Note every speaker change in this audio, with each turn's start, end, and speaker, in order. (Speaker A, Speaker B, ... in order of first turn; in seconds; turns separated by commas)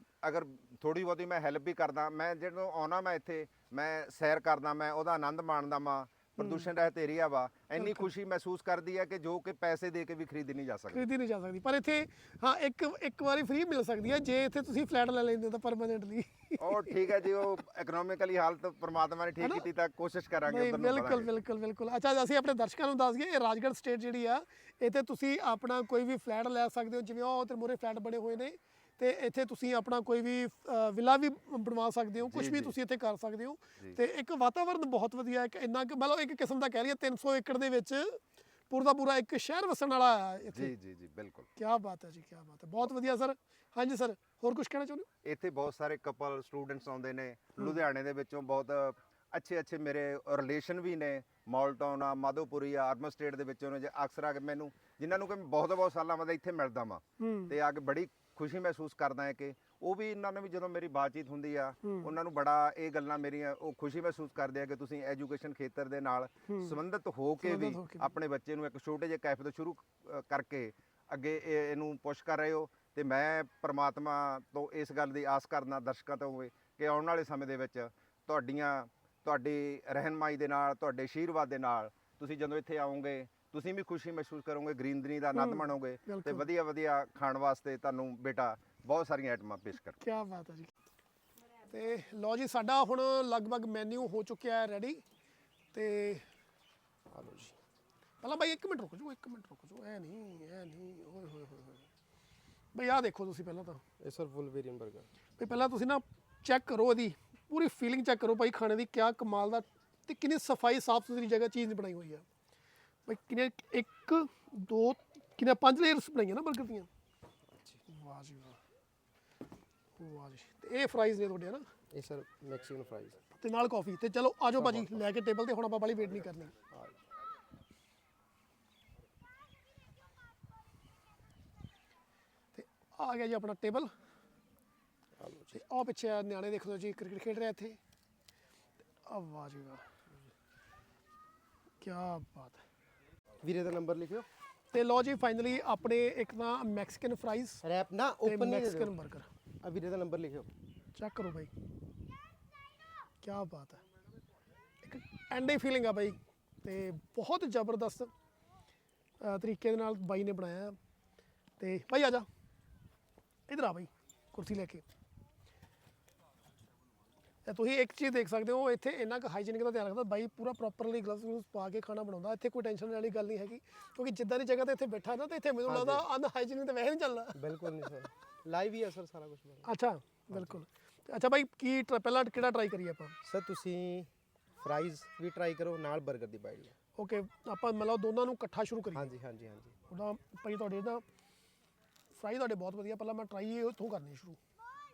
Speaker A: 0.2-11.1, Speaker B: 6.4-6.7, Speaker B: 7.7-8.1, Speaker B: 10.9-17.1, Speaker A: 16.6-21.3, Speaker B: 19.4-19.7, Speaker B: 20.4-40.7, Speaker A: 32.2-32.8, Speaker A: 40.5-41.5, Speaker B: 41.6-45.1, Speaker A: 45.2-90.0, Speaker B: 57.2-57.5, Speaker B: 61.8-62.1, Speaker B: 66.5-66.8, Speaker B: 67.4-68.1, Speaker B: 85.3-86.5, Speaker B: 90.0-90.7, Speaker B: 91.7-95.0, Speaker B: 95.7-96.2, Speaker C: 97.1-97.6, Speaker B: 98.2-101.9, Speaker B: 102.7-103.8, Speaker C: 104.0-105.1, Speaker B: 105.4-112.2, Speaker B: 113.1-116.9, Speaker B: 117.9-118.6, Speaker B: 120.0-121.7, Speaker C: 121.9-123.2, Speaker B: 123.4-126.5, Speaker C: 124.5-125.0, Speaker C: 126.7-127.0, Speaker B: 132.5-133.9, Speaker C: 135.2-135.6, Speaker B: 135.5-137.8, Speaker B: 139.1-139.8, Speaker B: 141.8-142.6, Speaker C: 143.4-144.2, Speaker B: 144.7-147.6, Speaker C: 147.6-148.9, Speaker B: 148.2-149.3, Speaker C: 149.6-150.5, Speaker B: 150.9-151.5, Speaker B: 153.2-153.8, Speaker B: 154.8-158.1, Speaker B: 159.2-160.8, Speaker B: 161.6-162.2, Speaker B: 163.5-164.8, Speaker B: 167.4-177.4, Speaker C: 175.7-176.1, Speaker C: 177.3-179.7, Speaker B: 179.6-183.2, Speaker C: 180.3-180.6, Speaker C: 183.2-186.7, Speaker B: 186.9-189.1, Speaker C: 188.9-189.7, Speaker B: 189.9-191.0, Speaker B: 192.1-194.4